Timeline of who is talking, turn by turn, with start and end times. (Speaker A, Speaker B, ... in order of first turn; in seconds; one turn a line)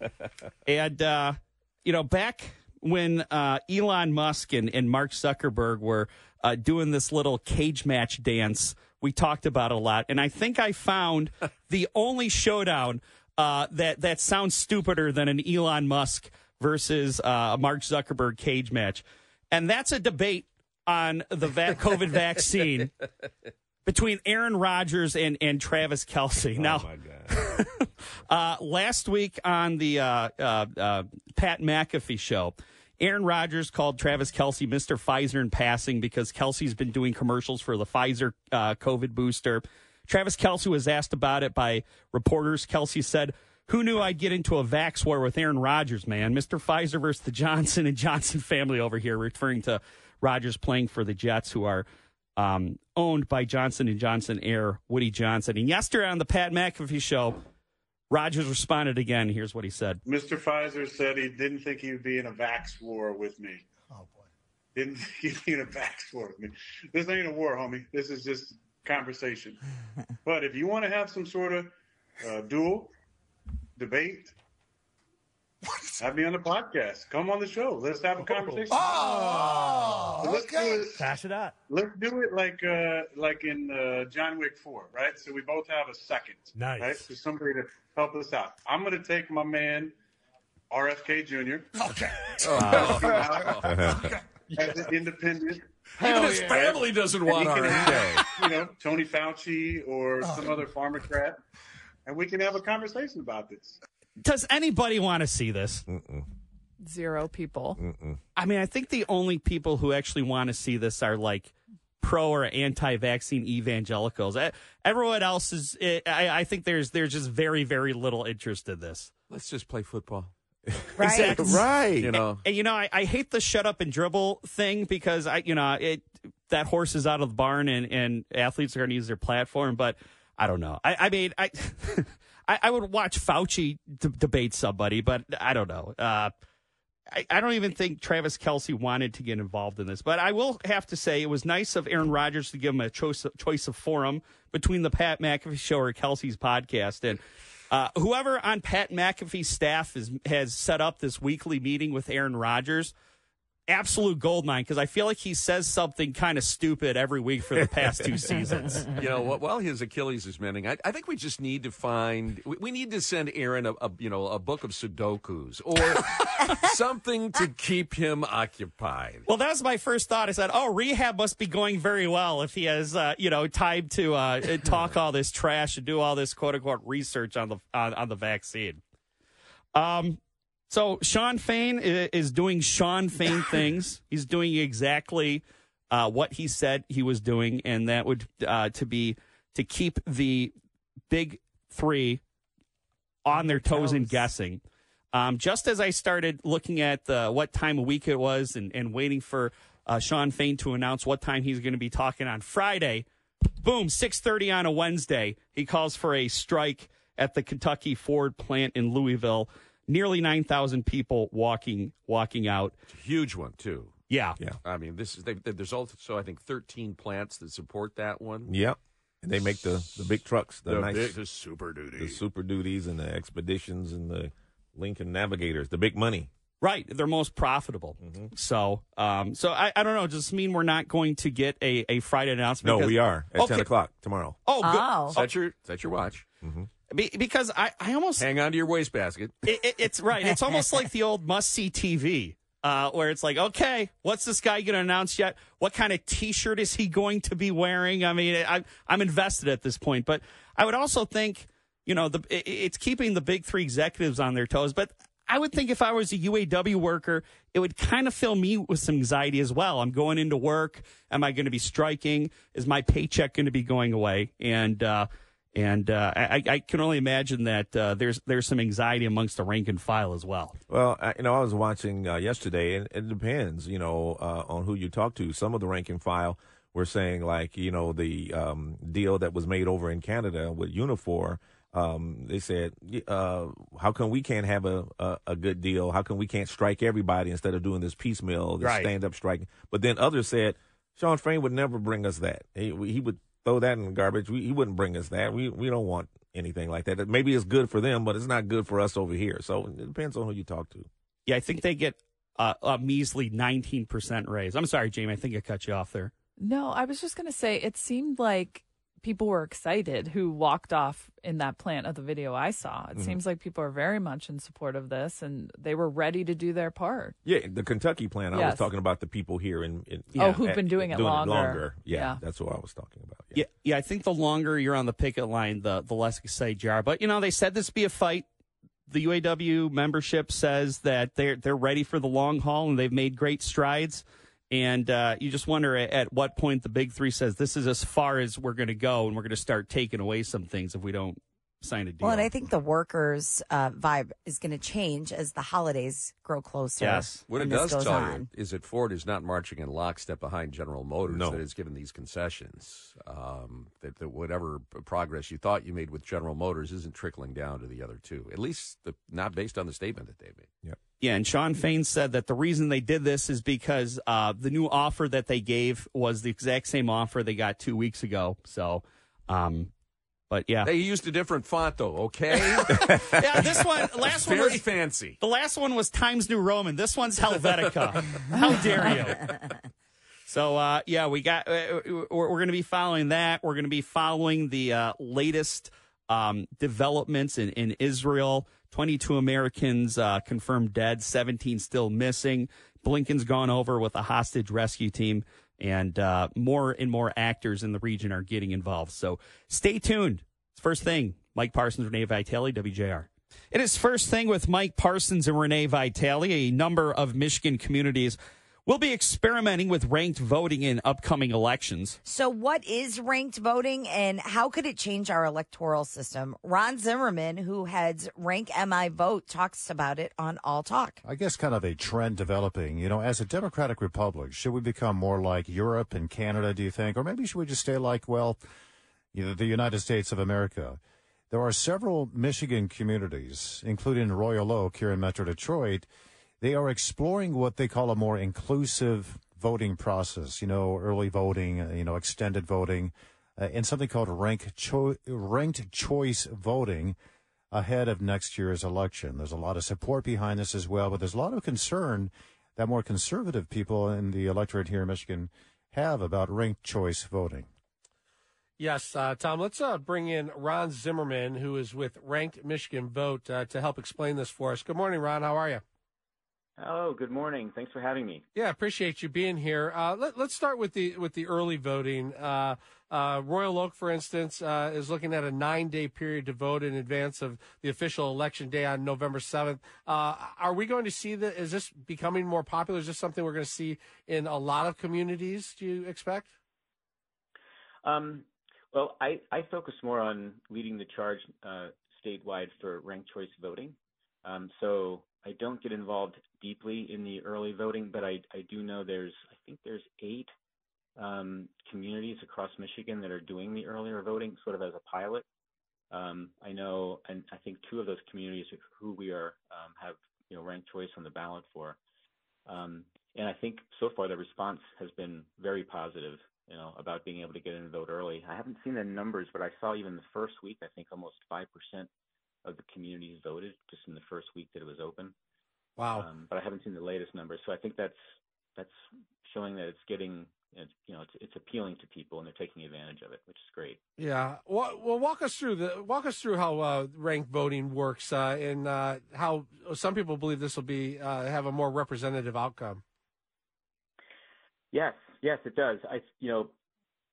Speaker A: 0.7-22.9
Speaker A: 23.9-51.9
Speaker B: 26.6-27.6
Speaker A: 52.4-57.4
Speaker A: 58.1-60.0
Speaker C: 60.0-63.6
Speaker C: 64.7-69.6
Speaker C: 70.2-72.9
Speaker C: 73.8-74.3
Speaker C: 76.0-81.1
Speaker A: 80.9-81.5
Speaker C: 81.7-89.9
Speaker A: 86.6-87.0
Speaker C: 90.7-91.8
Speaker D: 92.4-94.1
Speaker A: 92.6-93.0
Speaker C: 92.8-93.7
Speaker B: 93.7-94.1
Speaker C: 94.5-95.8
Speaker D: 96.0-98.3
Speaker C: 96.4-101.4
Speaker C: 102.0-103.8
Speaker A: 104.2-105.8
Speaker B: 105.9-106.3
Speaker E: 106.8-107.8
Speaker B: 107.8-108.2
Speaker A: 108.4-119.1
Speaker D: 119.3-120.3
Speaker F: 121.0-121.6
Speaker A: 121.0-121.7
Speaker B: 121.1-122.2
Speaker D: 122.0-122.4
Speaker A: 122.4-136.3
Speaker A: 137.1-152.9
Speaker A: 153.7-158.9
Speaker D: 158.9-169.2
Speaker A: 169.2-178.8
Speaker A: 179.7-180.2
Speaker A: 180.7-190.5
Speaker A: 191.1-192.2
Speaker A: 193.2-194.6
Speaker F: 193.3-194.3
Speaker A: 195.1-203.1
Speaker A: 203.6-212.7
Speaker D: 212.9-214.0
Speaker A: 214.1-214.4
Speaker D: 214.6-218.5
Speaker B: 218.4-221.2
Speaker D: 220.7-222.2
Speaker B: 222.0-226.3
Speaker A: 226.6-233.7
Speaker B: 228.0-228.3
Speaker B: 232.6-234.4
Speaker A: 234.4-235.3
Speaker F: 234.6-235.1
Speaker D: 235.1-236.2
Speaker B: 236.4-236.7
Speaker A: 236.9-238.2
Speaker D: 238.2-239.5
Speaker A: 239.4-270.6
Speaker B: 270.7-300.9
Speaker A: 288.6-288.9
Speaker A: 301.3-306.1
Speaker E: 306.4-317.1
Speaker B: 312.9-313.2
Speaker B: 317.2-323.4
Speaker E: 318.3-318.7
Speaker E: 320.1-322.2
Speaker A: 323.3-328.2
Speaker A: 328.9-342.3
Speaker F: 342.0-348.2
Speaker A: 346.8-347.2
Speaker D: 347.3-360.5
Speaker B: 351.1-351.4
Speaker A: 361.0-369.7
Speaker A: 370.3-370.7
Speaker D: 370.6-375.2
Speaker A: 372.6-379.3
Speaker A: 380.3-412.0
Speaker F: 412.0-421.0
Speaker G: 421.0-428.4
Speaker G: 429.1-430.8
Speaker G: 431.3-435.9
Speaker G: 436.4-447.0
Speaker G: 447.5-457.5
Speaker H: 458.6-465.6
Speaker I: 466.6-468.2
Speaker H: 468.3-486.3
Speaker I: 487.8-500.3
Speaker I: 500.9-505.2
Speaker I: 505.9-511.8
Speaker I: 512.5-521.9
Speaker I: 522.4-525.1
Speaker H: 525.8-526.1
Speaker I: 526.0-528.0
Speaker I: 528.5-533.8
Speaker H: 534.0-542.8
Speaker I: 544.7-546.5